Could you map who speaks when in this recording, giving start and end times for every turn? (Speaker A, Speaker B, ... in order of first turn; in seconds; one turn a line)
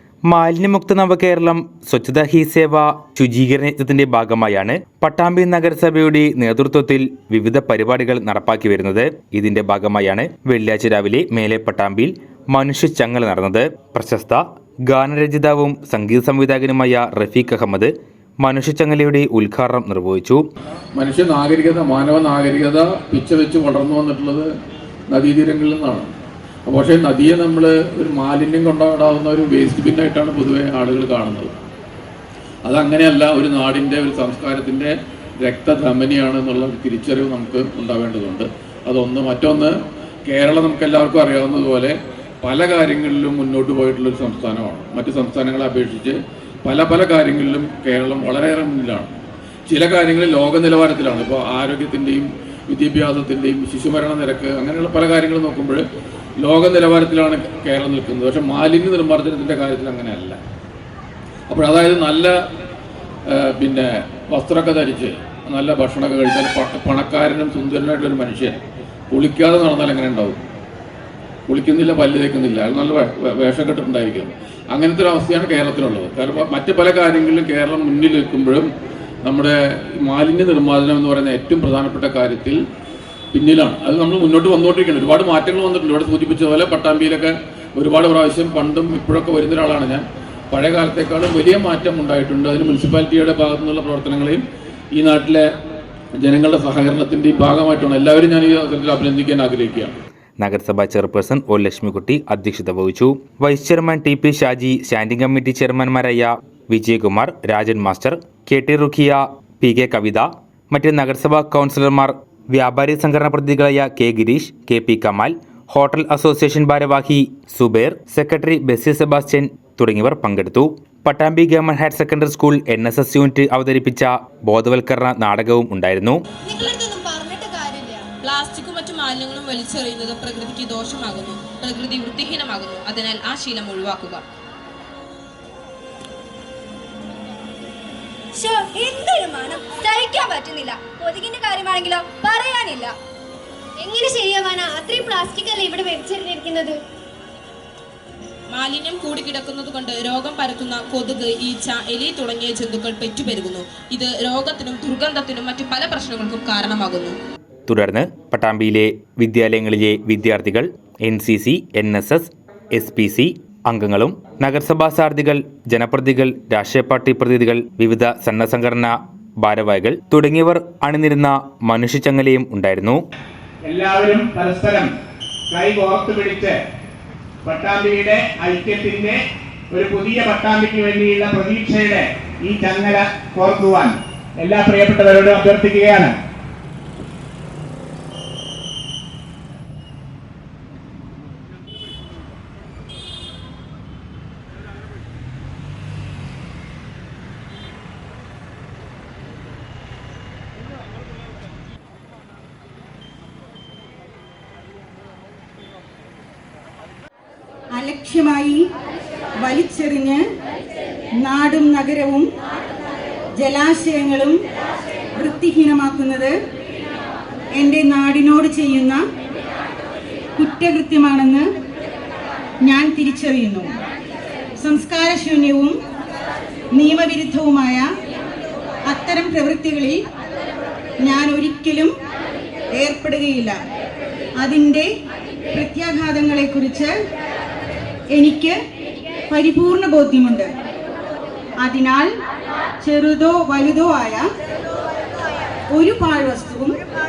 Speaker A: 0.3-17.9
Speaker A: 18.4-20.4
Speaker B: 20.9-24.5
Speaker B: 25.1-26.1
Speaker B: 26.7-31.5
Speaker B: 32.7-34.9
Speaker B: 35.4-39.7
Speaker B: 40.3-55.8
Speaker B: 56.4-60.4
Speaker B: 61.5-62.4
Speaker B: 63.3-70.4
Speaker B: 71.5-78.7
Speaker B: 79.2-82.6
Speaker B: 83.3-95.5
Speaker B: 96.2-100.0
Speaker A: 100.4-126.2
Speaker C: 126.5-128.1
Speaker D: 128.2-134.2
Speaker C: 138.3-142.9
Speaker C: 143.8-146.8
Speaker D: 148.5-157.2
Speaker A: 157.7-173.0
Speaker E: 173.7-174.9
Speaker E: 175.5-176.5
Speaker E: 177.4-179.2
Speaker E: 179.7-186.1
Speaker F: 207.7-208.7
Speaker F: 209.4-210.2
Speaker F: 211.2-212.3
Speaker F: 213.4-214.4
Speaker F: 215.2-216.3
Speaker F: 217.6-219.0
Speaker F: 220.4-221.5
Speaker F: 222.6-223.8
Speaker F: 224.6-225.8
Speaker F: 226.7-227.9
Speaker F: 228.9-230.0
Speaker F: 231.0-231.9
Speaker F: 232.8-233.6
Speaker F: 234.4-234.9
Speaker F: 235.5-236.9
Speaker F: 238.1-238.6
Speaker F: 239.3-240.5
Speaker F: 241.6-242.1
Speaker F: 242.8-244.3
Speaker F: 245.7-246.8